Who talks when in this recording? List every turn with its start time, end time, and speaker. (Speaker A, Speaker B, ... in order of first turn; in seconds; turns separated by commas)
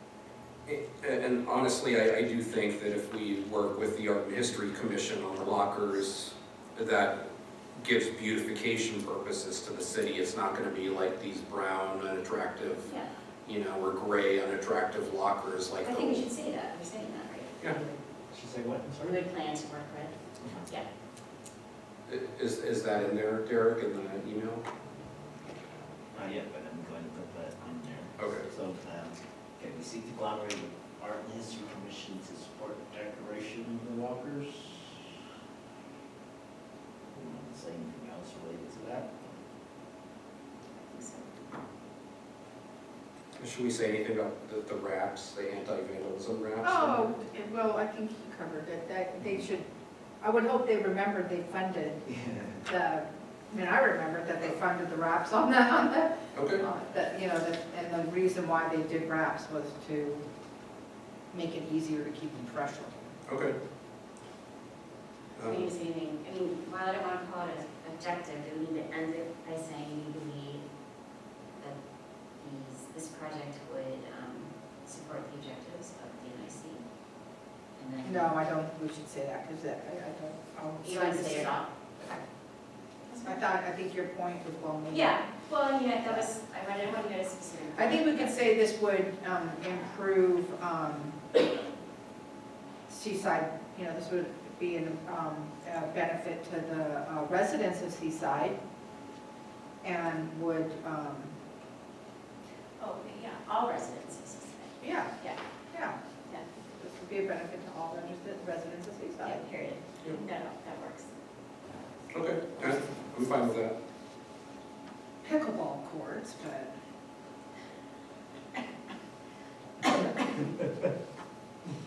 Speaker A: 0.7-7.2, Speaker A: 7.8-12.9, Speaker B: 12.8-13.1, Speaker A: 13.4-16.3, Speaker B: 15.8-18.0, Speaker C: 18.3-19.2, Speaker B: 19.0-20.9, Speaker A: 22.1-24.6, Speaker C: 26.1-35.2, Speaker A: 28.2-28.5, Speaker C: 37.1-39.4, Speaker B: 40.8-41.4, Speaker A: 43.4-47.1, Speaker D: 46.6-49.7, Speaker D: 50.2-52.1, Speaker C: 52.1-52.6, Speaker D: 52.7-60.2, Speaker A: 56.3-56.6, Speaker D: 61.3-63.1, Speaker A: 63.3-63.6, Speaker A: 65.4-65.7, Speaker B: 65.4-70.7, Speaker B: 71.5-76.9, Speaker B: 77.8-78.3, Speaker D: 78.0-81.5, Speaker B: 80.8-82.2, Speaker D: 83.1-85.2, Speaker B: 84.9-88.4, Speaker D: 87.8-91.2, Speaker D: 92.9-98.6, Speaker D: 99.8-101.3, Speaker B: 102.8-105.4, Speaker D: 104.8-105.1, Speaker D: 105.7-106.0, Speaker D: 106.8-109.4, Speaker B: 109.2-111.2, Speaker A: 112.1-113.8, Speaker D: 115.2-116.7